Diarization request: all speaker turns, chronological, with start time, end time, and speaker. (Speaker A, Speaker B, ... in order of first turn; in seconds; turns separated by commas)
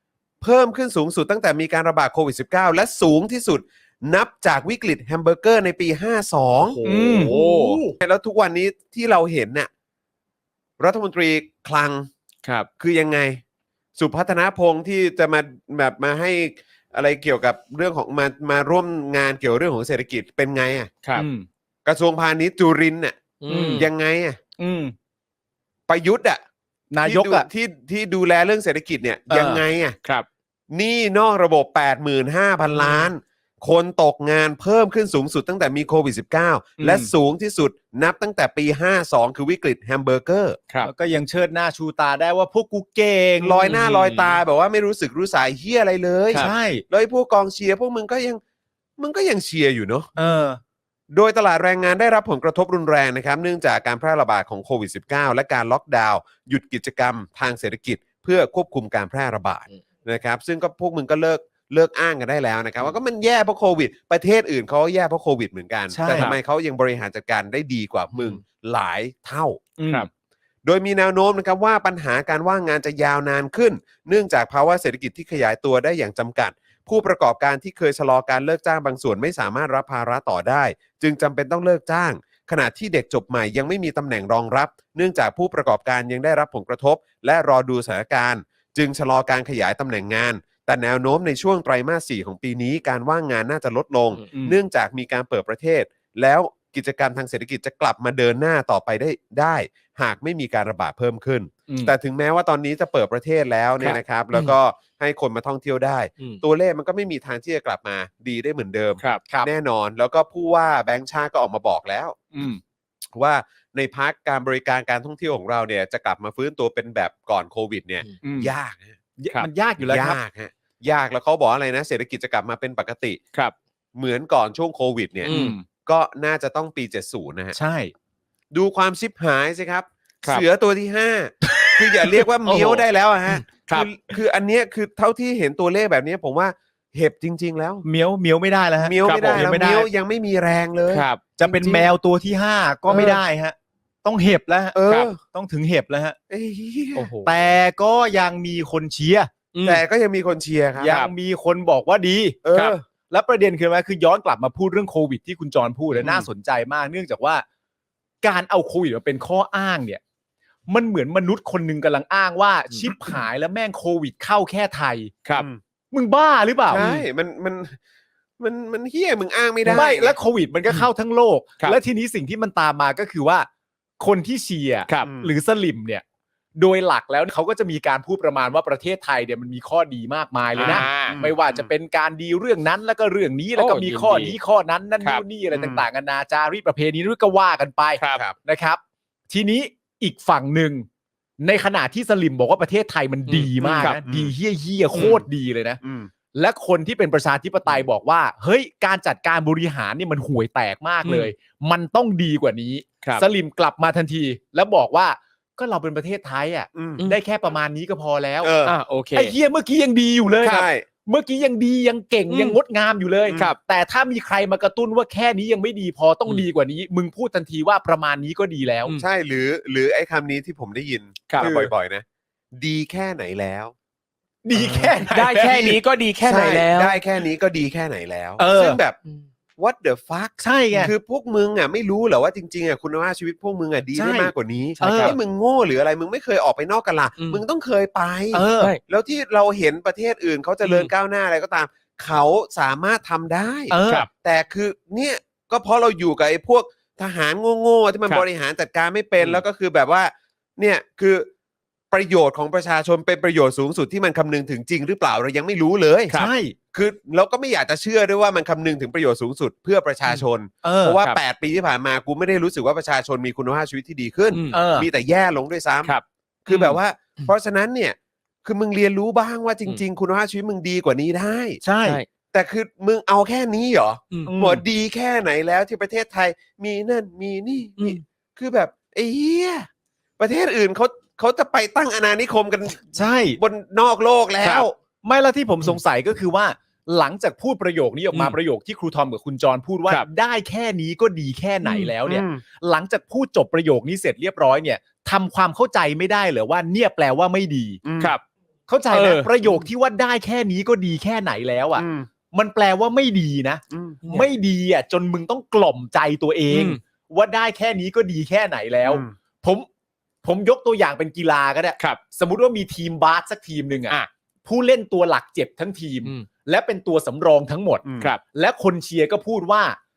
Speaker A: 0.4-6.8, Speaker B: 6.5-7.8, Speaker C: 6.8-8.0, Speaker A: 8.0-9.7, Speaker A: 10.8-12.1, Speaker A: 12.8-13.4, Speaker A: 14.0-21.0, Speaker C: 21.1-21.5, Speaker A: 21.9-23.2, Speaker B: 23.4-23.9, Speaker C: 23.5-23.9, Speaker A: 23.7-24.4, Speaker C: 24.6-24.9, Speaker A: 25.9-26.4, Speaker C: 26.9-27.5, Speaker A: 27.0-30.0, Speaker C: 29.3-29.6, Speaker A: 30.7-40.6, Speaker C: 36.8-37.1, Speaker C: 40.8-43.6, Speaker A: 43.4-48.4, Speaker B: 43.6-44.4, Speaker C: 46.3-46.8, Speaker A: 49.0-50.1, Speaker C: 50.2-50.6, Speaker A: 51.1-69.6, Speaker C: 65.9-66.3, Speaker B: 66.1-66.4, Speaker B: 68.1-68.4, Speaker C: 69.8-70.1, Speaker A: 70.6-112.3, Speaker C: 94.3-94.6, Speaker C: 101.7-101.9, Speaker B: 103.8-104.5, Speaker B: 109.0-109.3, Speaker C: 112.3-112.6, Speaker A: 113.1-119.0, Speaker C: 118.2-118.5, Speaker C: 119.2-120.2, Speaker A: 119.8-123.2, Speaker A: 124.0-127.6, Speaker C: 125.2-125.7, Speaker B: 125.3-125.6, Speaker C: 127.5-127.9, Speaker A: 128.5-137.8, Speaker C: 131.5-132.8, Speaker B: 133.3-133.9, Speaker C: 137.8-139.9, Speaker A: 138.8-141.9, Speaker B: 139.0-139.5, Speaker B: 140.9-141.3, Speaker C: 141.3-146.2, Speaker A: 142.9-143.2, Speaker A: 144.8-145.2, Speaker B: 144.9-145.1, Speaker A: 146.3-147.1, Speaker B: 147.0-147.5, Speaker C: 147.1-149.3, Speaker B: 149.5-149.8, Speaker A: 149.6-150.9, Speaker C: 150.8-152.4, Speaker B: 150.8-151.1, Speaker A: 152.4-152.8, Speaker C: 153.1-157.4, Speaker B: 155.9-156.2, Speaker C: 158.2-160.0, Speaker C: 160.7-165.2, Speaker B: 162.7-163.1, Speaker A: 165.3-165.6, Speaker C: 165.9-166.8, Speaker A: 166.7-167.8, Speaker B: 166.8-167.1, Speaker A: 168.4-170.2, Speaker C: 169.7-173.5, Speaker C: 174.0-176.0, Speaker A: 175.0-175.3, Speaker C: 176.6-190.8, Speaker B: 180.6-181.2, Speaker A: 180.6-181.7, Speaker B: 183.6-184.4, Speaker A: 185.5-185.8, Speaker B: 188.0-188.2, Speaker C: 191.4-195.8, Speaker B: 193.3-194.0, Speaker A: 193.8-194.3, Speaker A: 195.0-195.2, Speaker A: 195.8-196.1, Speaker C: 196.3-208.6, Speaker B: 201.0-201.3, Speaker A: 206.7-207.1, Speaker A: 208.4-208.8, Speaker B: 208.7-209.3, Speaker C: 209.1-218.9, Speaker A: 210.4-210.8, Speaker B: 212.3-212.6, Speaker A: 218.9-223.7, Speaker C: 221.4-221.7, Speaker C: 224.4-225.7, Speaker A: 224.5-229.0, Speaker B: 225.1-227.0, Speaker C: 228.4-228.8, Speaker A: 229.6-251.3, Speaker C: 230.4-230.9, Speaker C: 233.9-235.2, Speaker B: 234.9-235.2, Speaker B: 237.2-237.4, Speaker C: 238.3-238.8, Speaker B: 240.6-240.9, Speaker C: 243.7-244.1, Speaker A: 251.9-256.2, Speaker C: 256.1-256.6, Speaker A: 256.7-265.9, Speaker C: 260.6-261.0, Speaker B: 264.3-264.6, Speaker C: 264.5-264.9, Speaker B: 265.8-267.3, Speaker A: 266.4-271.6, Speaker C: 271.6-272.0, Speaker A: 272.3-279.7, Speaker C: 274.2-274.6, Speaker A: 280.2-284.8, Speaker C: 282.9-283.4, Speaker C: 284.4-297.8, Speaker B: 288.1-288.4, Speaker B: 291.6-291.9, Speaker A: 292.0-292.4, Speaker A: 297.8-298.1, Speaker C: 298.7-309.7, Speaker B: 298.9-299.3, Speaker A: 299.4-299.7, Speaker A: 301.8-302.1, Speaker A: 303.7-304.1, Speaker B: 304.0-304.3, Speaker B: 306.5-306.8, Speaker A: 308.8-309.1, Speaker C: 310.2-319.8, Speaker A: 317.8-318.1